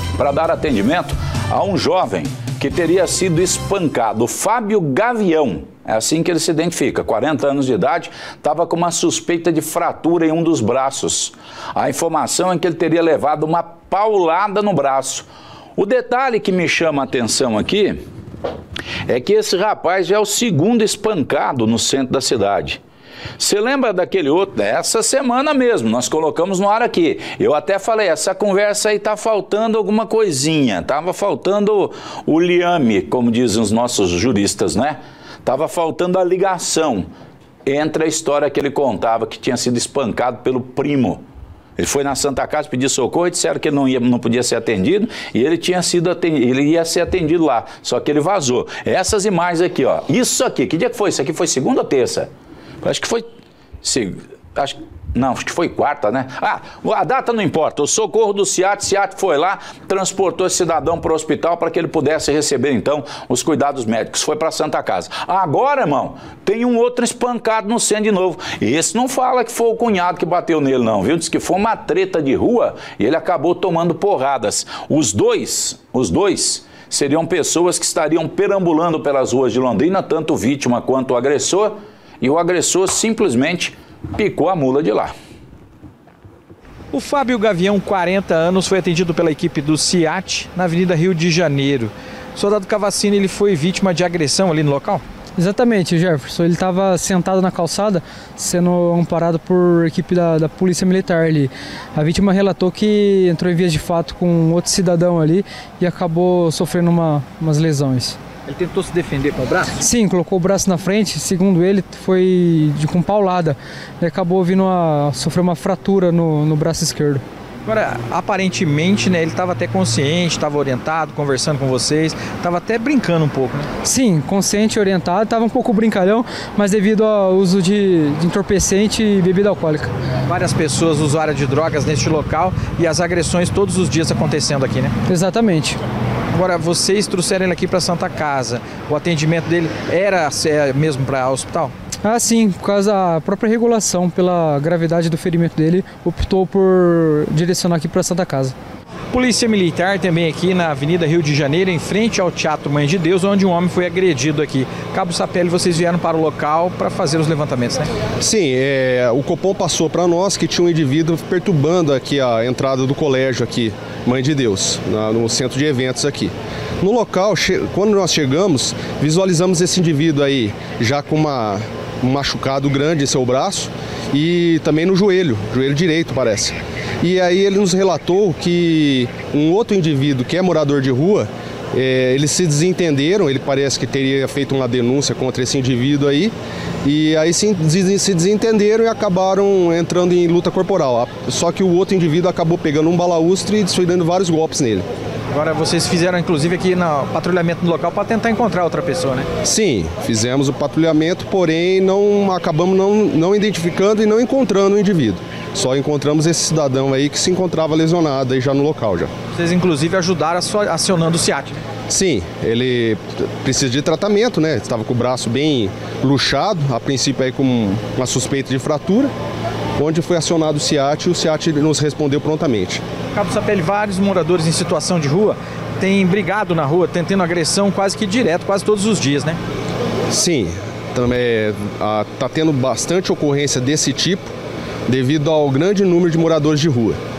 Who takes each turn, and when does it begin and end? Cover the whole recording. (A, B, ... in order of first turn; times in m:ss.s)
0:00.2-0:18.0 A
0:19.1-0:22.8 A
0:23.4-0:37.1 A
0:37.7-0:41.2 A
0:41.8-0:52.3 A
0:52.8-0:53.2 A
0:53.8-1:25.1 A
1:26.9-1:35.0 B
1:35.4-1:48.2 C
1:48.5-1:49.8 B
1:49.8-1:57.2 C
1:57.7-2:03.7 B
2:03.8-2:09.9 C
2:10.3-2:14.9 B
2:15.1-2:15.8 C
2:16.3-2:21.7 B
2:22.0-2:28.6 C
2:29.1-2:37.9 B
2:38.2-3:14.9 D
3:15.3-3:19.3 B
3:19.4-3:29.1 D
3:29.3-3:31.6 B
3:31.9-3:39.1 D
3:39.8-3:42.8 D
3:43.1-3:49.4 B
3:50.1-3:54.3 D
3:54.9-3:57.0 D